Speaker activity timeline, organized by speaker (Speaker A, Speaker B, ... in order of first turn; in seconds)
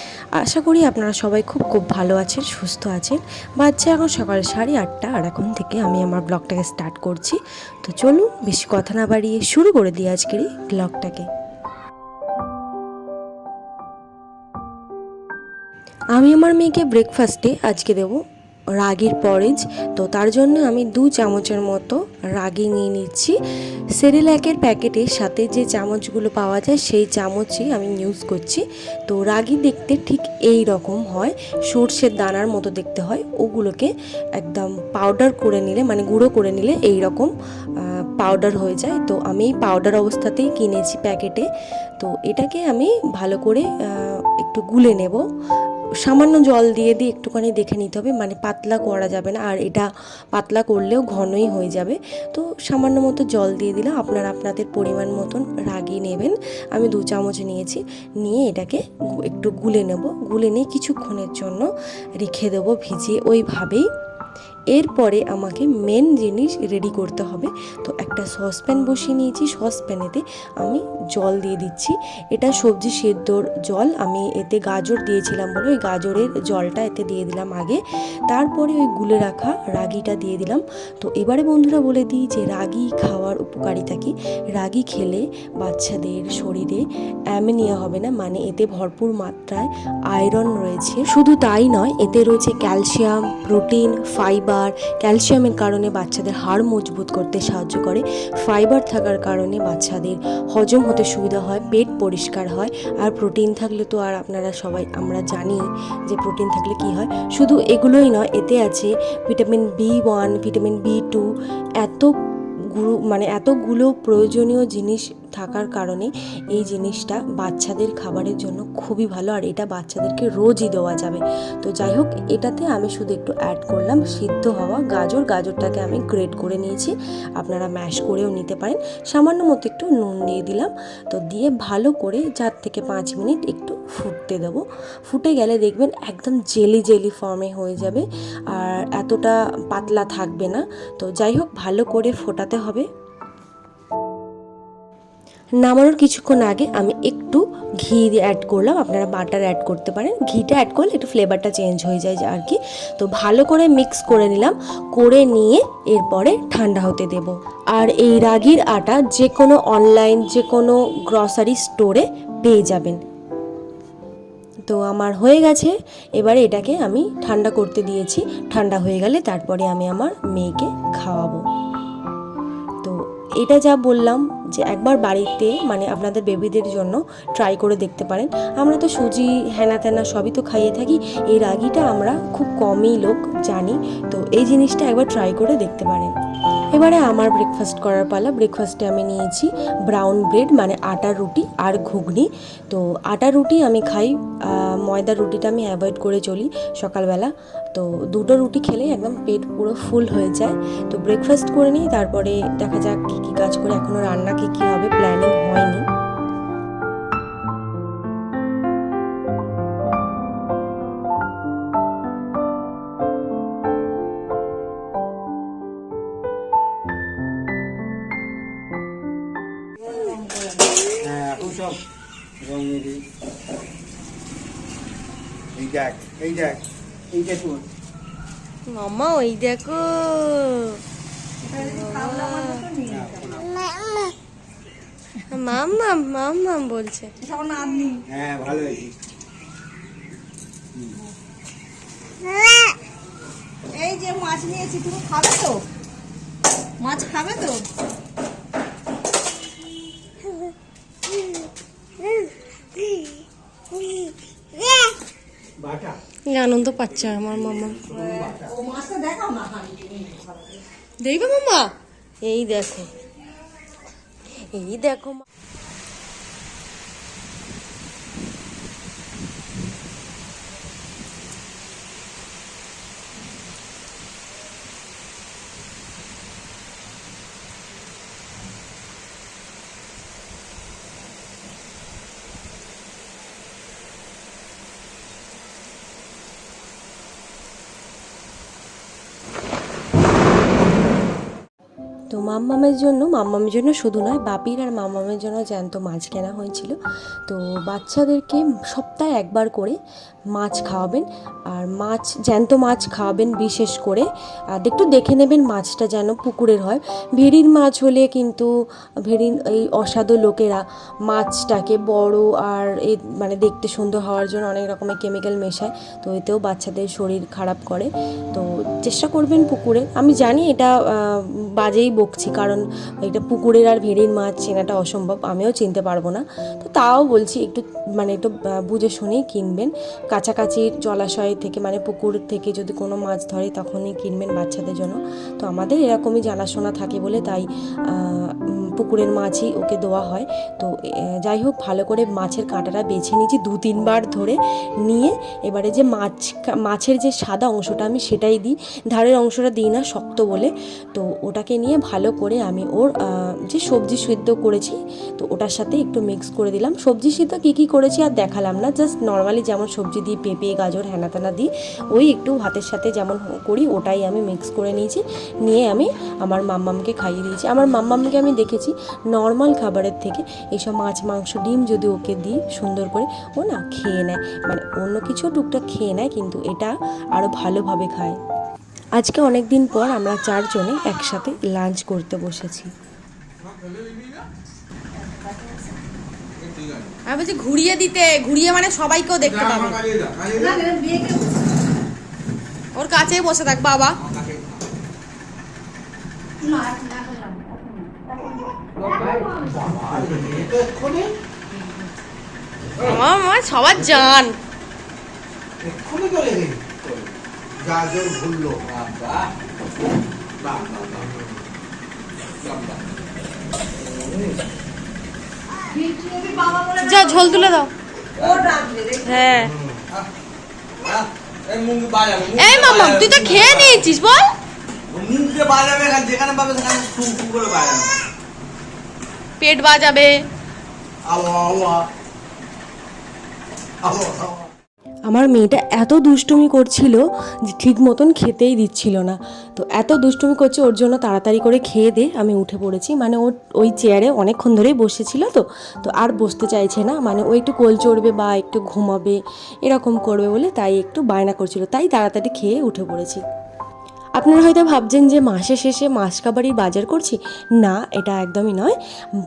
Speaker A: 0.4-11.3, 16.2-18.2, 18.8-23.4, 24.0-37.3, 37.8-41.5, 42.0-45.2, 46.0-61.7, 62.2-63.9, 64.7-112.1, 112.7-142.9, 145.6-163.0, 164.7-171.4, 172.8-186.1, 186.7-205.8, 235.8-237.1, 256.3-257.9, 261.0-261.7, 262.2-262.9, 264.4-265.2, 292.1-296.8, 297.3-299.8, 300.3-308.5, 309.1-378.2, 379.0-382.7, 435.1-453.2, 454.2-458.8
Speaker B: 221.0-221.8, 222.4-223.0, 225.6-226.6, 227.1-227.6, 232.9-233.5, 238.1-238.9, 255.6-256.0, 257.6-258.5, 400.0-400.4, 407.8-408.4
Speaker C: 228.7-230.8, 231.7-232.7, 235.3-236.8, 387.1-389.8, 392.8-394.0, 402.8-404.4, 416.8-417.7, 419.0-419.5, 422.4-424.3, 429.4-430.1
Speaker D: 231.4-233.3, 237.2-238.1, 242.3-242.7, 243.7-245.7, 246.8-247.7, 257.9-260.6, 384.9-385.8, 390.4-391.5, 396.4-398.4, 399.2-399.5, 415.7-417.6, 418.3-419.2
Speaker E: 383.6-384.2, 386.4-386.9, 389.2-390.6, 394.1-394.4, 398.8-401.1, 405.6-407.0, 408.6-409.3, 410.4-411.1, 412.4-412.8, 418.2-418.5, 420.8-423.9, 424.9-427.9, 431.1-431.9